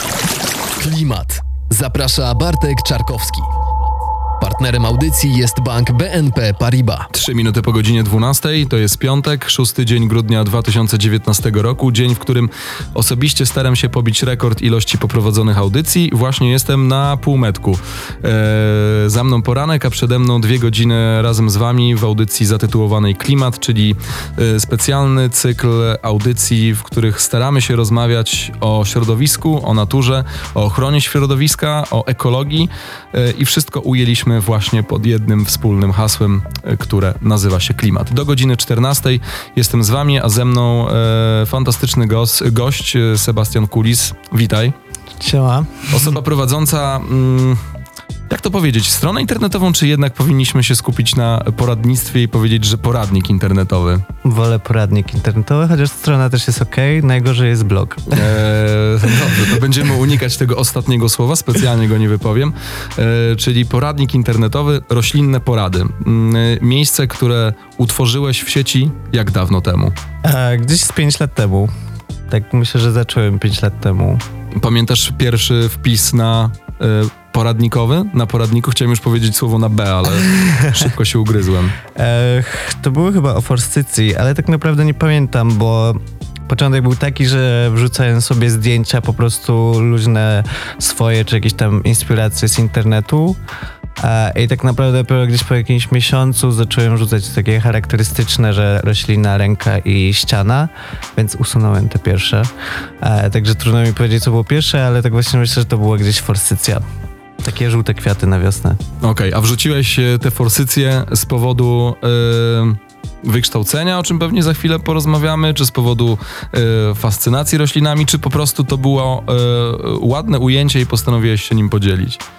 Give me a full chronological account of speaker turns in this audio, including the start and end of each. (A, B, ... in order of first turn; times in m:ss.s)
0:00.8-0:03.6 A
0:04.4-0:07.1 A
0:07.1-0:44.7 B
0:45.2-0:46.1 C
0:45.9-0:47.6 B
0:48.3-0:54.0 B
0:54.2-0:58.3 C
0:58.1-1:09.9 B
1:10.2-1:11.7 C
1:12.3-1:14.2 C
1:14.6-1:21.8 B
1:20.2-1:20.7 C
1:21.9-1:33.4 C
1:34.0-1:42.5 C
1:43.0-1:46.8 C
1:47.4-1:48.8 C
1:49.0-2:02.2 B